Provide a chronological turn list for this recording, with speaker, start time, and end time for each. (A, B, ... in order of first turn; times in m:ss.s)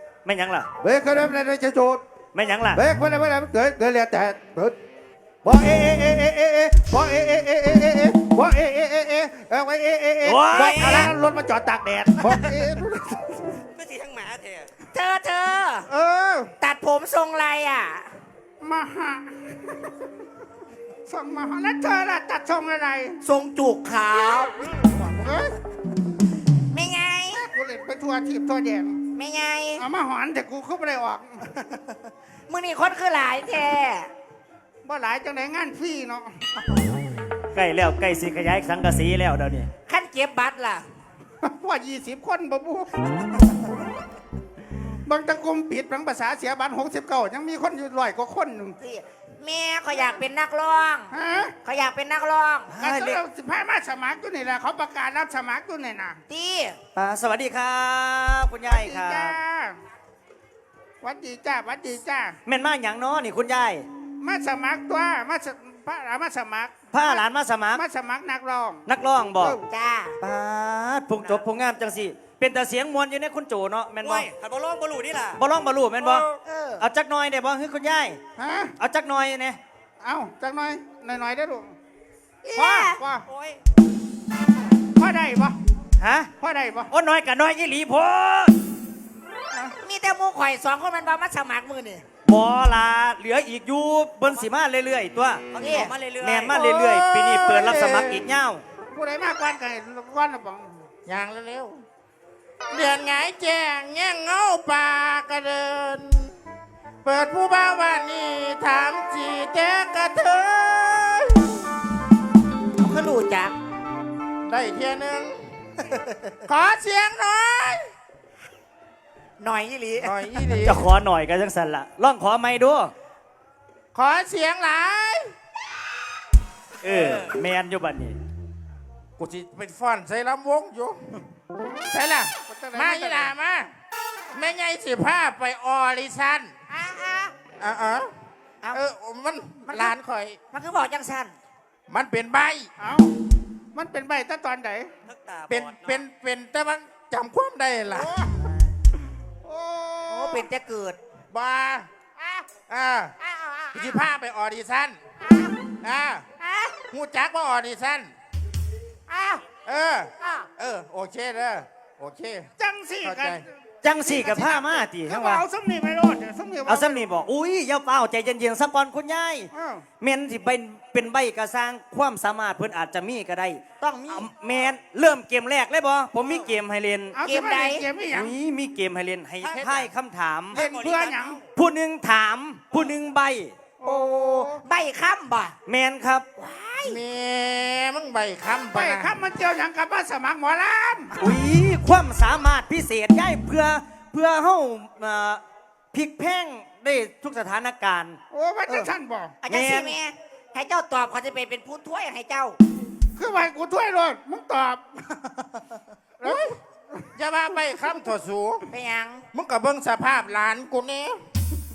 0:00.2-0:00.7 A
0:00.8-0:02.0 B
0:02.3-0:02.8 A
0:02.7-0:04.8 B
0:05.4-0:13.4 B
0:10.2-0:11.1 A
0:10.6-0:11.1 C
0:13.8-0:14.7 D
0:14.9-0:15.9 C
0:15.9-0:16.5 B
0:16.6-0:18.1 C
0:18.6-0:19.9 B
0:21.1-0:23.2 B
0:23.2-0:24.6 C
0:24.8-0:25.5 B
0:26.7-0:27.5 C
0:27.4-0:29.0 B
0:29.1-0:29.8 C
0:29.8-0:31.8 B
0:32.5-0:34.1 C
0:34.8-0:36.5 B
0:37.5-0:39.7 A
0:39.9-0:40.8 C
0:41.4-0:43.2 B
0:45.0-0:48.8 B
0:48.8-0:51.1 C
0:51.1-0:51.6 B
0:51.6-0:52.7 C
0:52.7-0:53.2 A
0:52.8-0:56.2 B
0:56.3-0:56.8 C
0:56.9-0:59.4 A
0:58.6-0:59.8 B
1:01.0-1:02.4 B
1:02.4-1:03.8 A
1:04.2-1:07.2 B
1:06.9-1:07.8 A
1:07.7-1:08.8 B
1:08.8-1:09.6 A
1:09.7-1:10.2 C
1:10.2-1:14.3 A
1:14.0-1:15.3 D
1:15.3-1:16.2 A
1:16.0-1:16.8 C
1:16.8-1:18.2 A
1:18.4-1:18.8 B
1:18.8-1:19.6 A
1:20.0-1:21.8 B
1:22.4-1:23.6 C
1:22.6-1:23.2 B
1:25.0-1:25.6 B
1:26.0-1:26.3 A
1:26.4-1:26.9 B
1:26.9-1:28.6 A
1:29.8-1:32.0 C
1:32.2-1:35.4 A
1:35.5-1:36.4 C
1:35.6-1:36.5 D
1:36.2-1:38.6 A
1:36.5-1:38.2 E
1:38.9-1:40.8 B
1:41.0-1:41.8 E
1:42.7-1:46.4 E
1:47.0-1:51.6 E
1:52.8-1:53.5 C
1:54.4-1:55.8 E
1:56.4-1:57.9 E
1:59.4-2:00.3 C
2:00.0-2:00.9 E
2:00.6-2:02.9 A
2:03.9-2:05.3 E
2:06.8-2:08.2 A
2:06.9-2:07.2 C
2:09.2-2:11.2 E
2:11.8-2:13.7 E
2:12.4-2:13.3 B
2:14.3-2:16.5 E
2:16.7-2:17.3 C
2:17.6-2:18.1 E
2:18.7-2:20.4 E
2:19.6-2:20.0 C
2:20.5-2:21.3 C
2:21.9-2:22.7 E
2:22.8-2:23.1 B
2:23.7-2:24.9 B
2:25.1-2:26.0 A
2:25.5-2:28.1 E
2:27.9-2:28.4 B
2:29.4-2:30.5 B
2:30.1-2:31.0 C
2:31.3-2:31.9 E
2:32.2-2:32.5 C
2:32.7-2:33.2 E
2:33.2-2:34.0 C
2:33.7-2:35.0 E
2:35.2-2:35.6 C
2:35.8-2:36.2 E
2:36.4-2:36.8 C
2:36.9-2:38.1 E
2:39.1-2:39.5 C
2:39.6-2:42.5 E
2:40.2-2:40.5 C
2:42.6-2:47.0 B
2:43.0-2:43.4 E
2:43.8-2:45.4 A
2:46.7-2:57.2 A
2:49.5-2:49.8 B
2:53.8-2:54.3 C
2:57.1-2:58.3 B
2:57.2-2:57.9 C
2:58.1-3:00.6 A
2:59.4-2:59.9 E
3:00.5-3:01.4 B
3:00.6-3:01.1 D
3:01.5-3:03.5 A
3:03.8-3:04.6 B
3:03.8-3:05.6 C
3:05.6-3:06.2 A
3:06.4-3:07.0 C
3:06.8-3:09.1 E
3:08.7-3:11.3 B
3:11.1-3:18.2 A
3:18.3-3:19.4 B
3:19.4-3:22.6 C
3:19.5-3:19.9 A
3:23.2-3:25.4 B
3:26.2-3:27.1 B
3:26.2-3:26.6 E
3:27.1-3:28.7 E
3:28.7-3:29.2 C
3:29.3-3:31.2 E